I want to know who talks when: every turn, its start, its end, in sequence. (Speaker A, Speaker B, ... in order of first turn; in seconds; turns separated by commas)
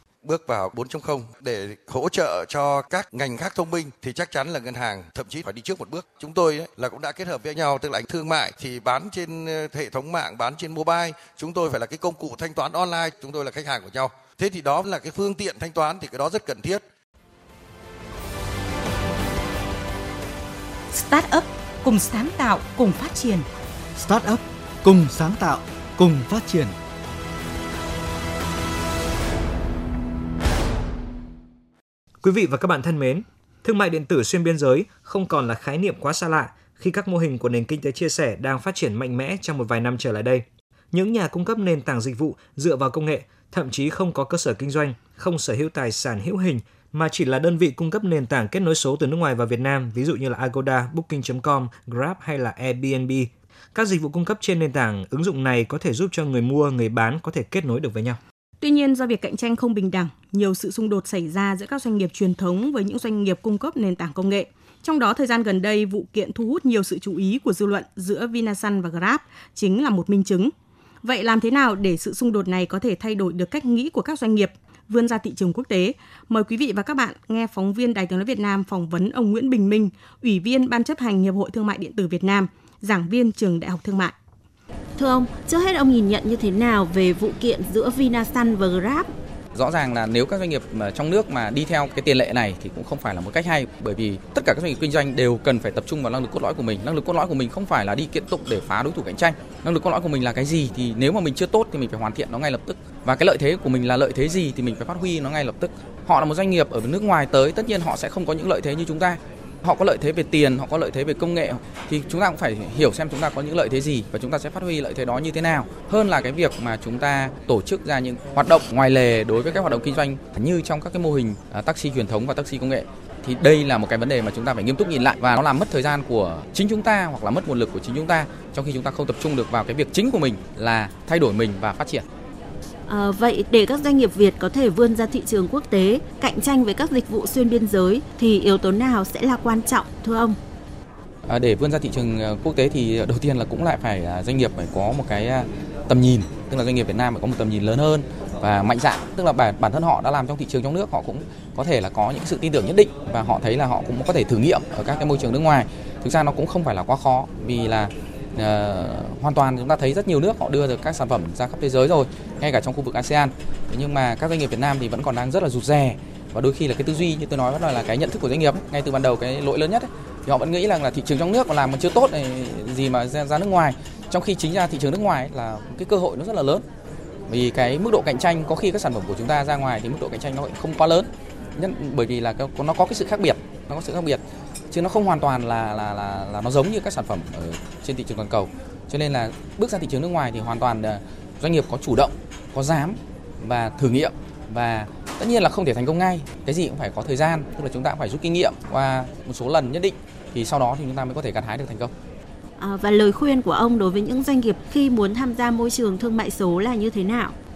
Speaker A: 0.2-16.8, Speaker B: 20.9-23.5, Speaker C: 24.0-26.8, Speaker D: 32.2-58.2, Speaker E: 58.6-70.5, Speaker E: 71.0-84.1, Speaker F: 85.0-89.1, Speaker G: 89.5-132.1, Speaker F: 132.9-140.3, Speaker G: 141.3-176.7, Speaker G: 177.3-201.9, Speaker F: 202.6-207.3